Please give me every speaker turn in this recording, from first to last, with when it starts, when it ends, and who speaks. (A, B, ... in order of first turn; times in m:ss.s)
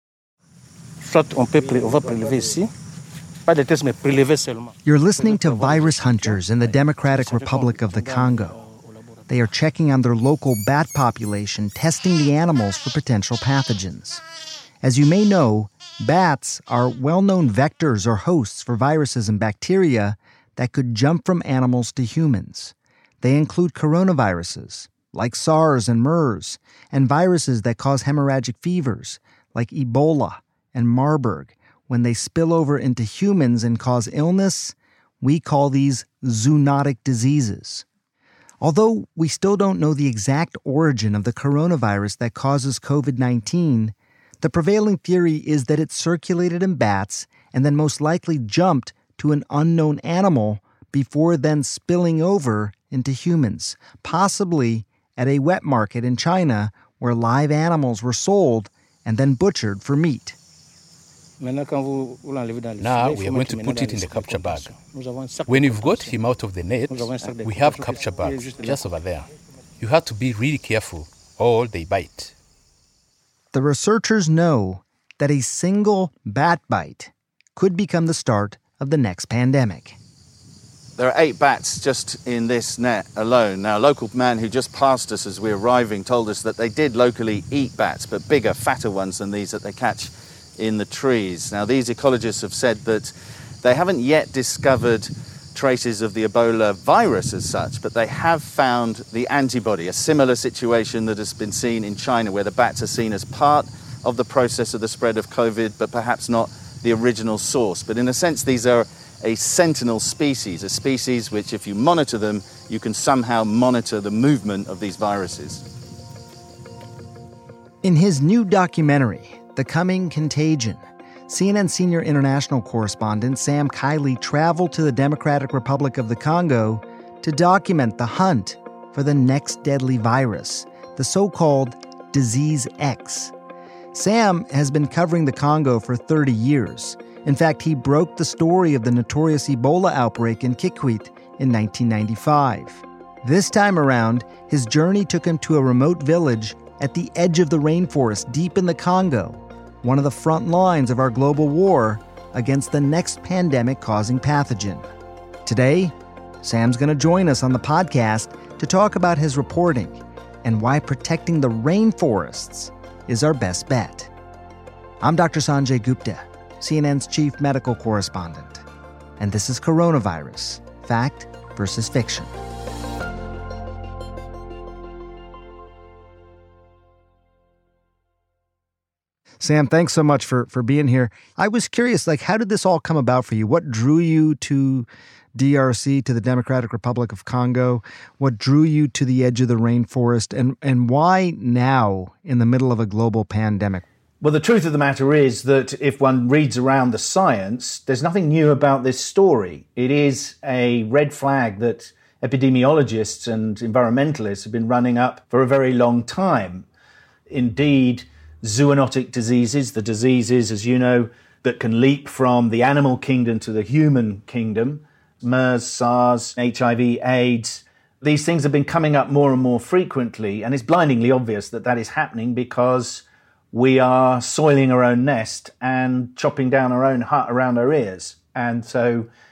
0:01.0-0:02.7 A
0:03.5-0:08.6 A
0:04.8-0:08.6 B
0:09.3-0:14.2 B
0:14.8-0:37.8 B
0:38.6-1:00.4 B
1:01.4-1:06.2 A
1:02.8-1:04.7 C
1:05.5-1:09.3 C
1:06.9-1:08.8 A
1:09.8-1:12.3 C
1:13.5-1:20.0 B
1:21.0-1:55.6 D
1:57.8-2:13.3 B
2:13.9-2:34.8 B
2:35.4-2:44.1 B
2:45.0-2:48.6 B
2:49.2-2:52.3 B
2:59.4-3:13.8 B
3:14.2-3:26.7 E
3:27.3-3:49.1 E